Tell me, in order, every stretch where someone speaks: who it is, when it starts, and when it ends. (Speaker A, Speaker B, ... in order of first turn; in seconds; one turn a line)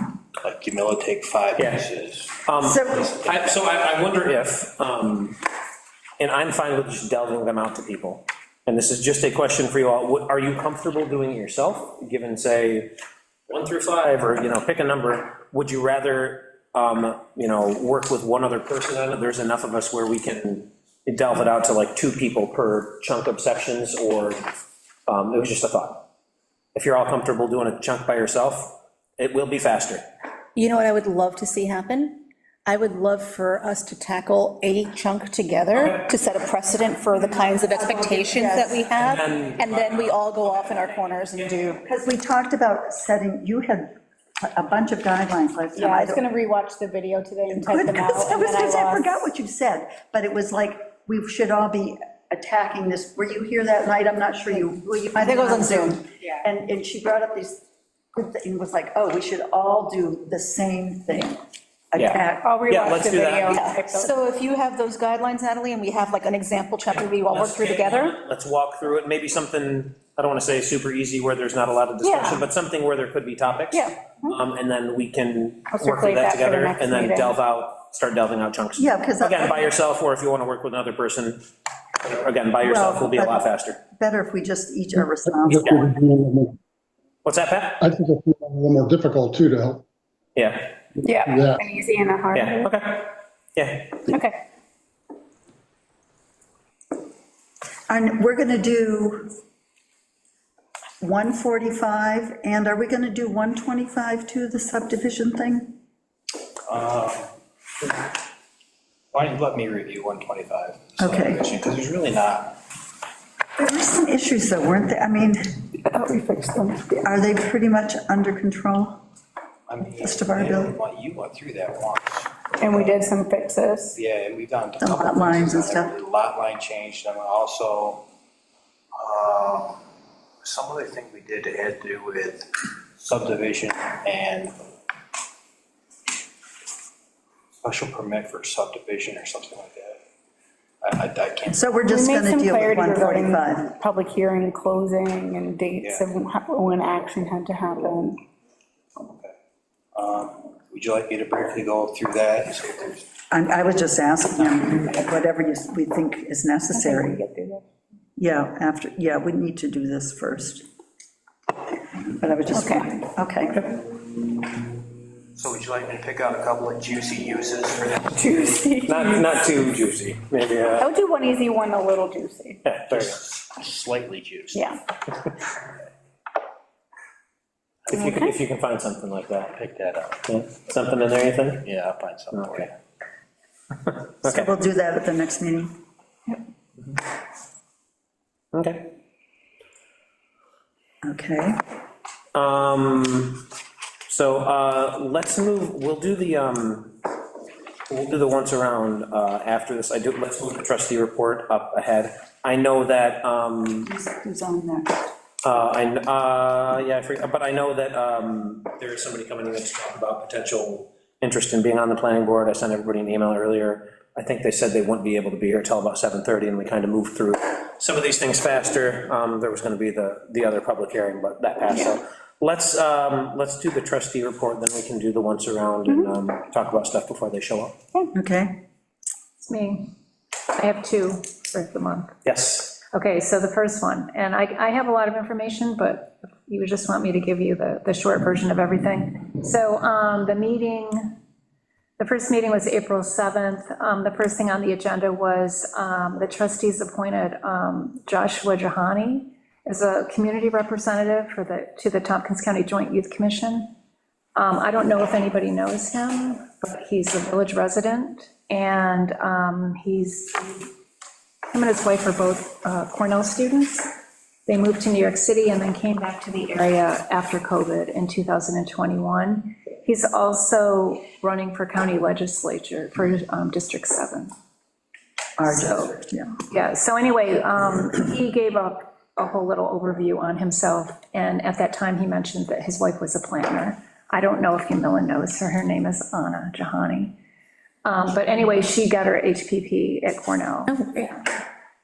Speaker A: 0.4-3.6
Speaker B: 1.6-1.9
Speaker B: 2.4-5.4
Speaker C: 2.6-3.1
Speaker B: 6.2-12.9
Speaker B: 13.5-24.5
Speaker B: 25.1-26.1
Speaker B: 26.7-30.0
Speaker D: 30.6-41.8
Speaker C: 37.5-38.9
Speaker B: 39.0-41.6
Speaker C: 41.9-46.2
Speaker E: 45.7-49.2
Speaker C: 47.5-61.4
Speaker D: 55.2-56.0
Speaker C: 61.9-62.5
Speaker B: 62.0-63.6
Speaker E: 62.4-64.2
Speaker D: 63.5-68.2
Speaker B: 66.9-81.4
Speaker E: 72.0-72.4
Speaker E: 73.7-74.3
Speaker E: 75.7-77.3
Speaker C: 78.8-79.7
Speaker B: 82.0-83.8
Speaker C: 82.6-85.8
Speaker F: 85.4-86.5
Speaker B: 87.2-87.9
Speaker F: 87.8-89.8
Speaker B: 90.3-90.8
Speaker E: 91.0-92.7
Speaker F: 91.3-91.6
Speaker B: 92.3-94.1
Speaker E: 94.1-94.4
Speaker C: 97.9-99.3
Speaker C: 101.0-105.8
Speaker A: 106.7-107.3
Speaker A: 109.1-112.6
Speaker C: 111.0-111.4
Speaker C: 113.6-115.6
Speaker E: 115.8-117.1
Speaker C: 117.0-119.0
Speaker A: 119.7-123.1
Speaker C: 120.0-120.7
Speaker E: 122.6-124.0
Speaker A: 123.9-128.1
Speaker C: 124.8-125.9
Speaker A: 128.9-129.8
Speaker A: 130.4-134.5
Speaker A: 137.6-140.0
Speaker A: 140.8-141.7
Speaker C: 141.5-143.7
Speaker E: 141.9-148.2
Speaker A: 145.8-146.1
Speaker A: 149.0-149.3
Speaker A: 149.9-153.1
Speaker C: 153.3-157.2
Speaker E: 156.7-157.7
Speaker C: 158.2-160.6
Speaker C: 162.0-163.9
Speaker E: 162.5-162.9
Speaker A: 165.3-168.7
Speaker E: 168.2-169.3
Speaker B: 168.8-170.9
Speaker E: 170.8-172.6
Speaker B: 172.6-173.2
Speaker A: 172.9-174.6
Speaker E: 174.5-174.8
Speaker B: 177.9-179.5
Speaker E: 177.9-178.3
Speaker A: 179.5-180.2
Speaker B: 180.2-181.7
Speaker A: 181.6-182.7
Speaker B: 182.3-182.7
Speaker B: 183.9-184.5
Speaker C: 184.2-185.7
Speaker B: 188.5-188.9
Speaker C: 191.0-191.6
Speaker B: 192.3-193.5
Speaker B: 194.1-197.0
Speaker B: 197.9-203.9
Speaker C: 203.8-205.1
Speaker B: 205.4-227.8
Speaker E: 221.7-221.9
Speaker C: 228.1-228.6
Speaker G: 229.4-229.9
Speaker G: 230.5-232.1
Speaker B: 232.2-232.8
Speaker G: 232.8-241.2
Speaker G: 242.0-253.7
Speaker G: 254.3-260.7
Speaker G: 261.5-263.9
Speaker G: 264.4-274.3
Speaker C: 275.4-276.4
Speaker G: 275.5-287.2
Speaker G: 287.8-291.2
Speaker D: 290.7-291.1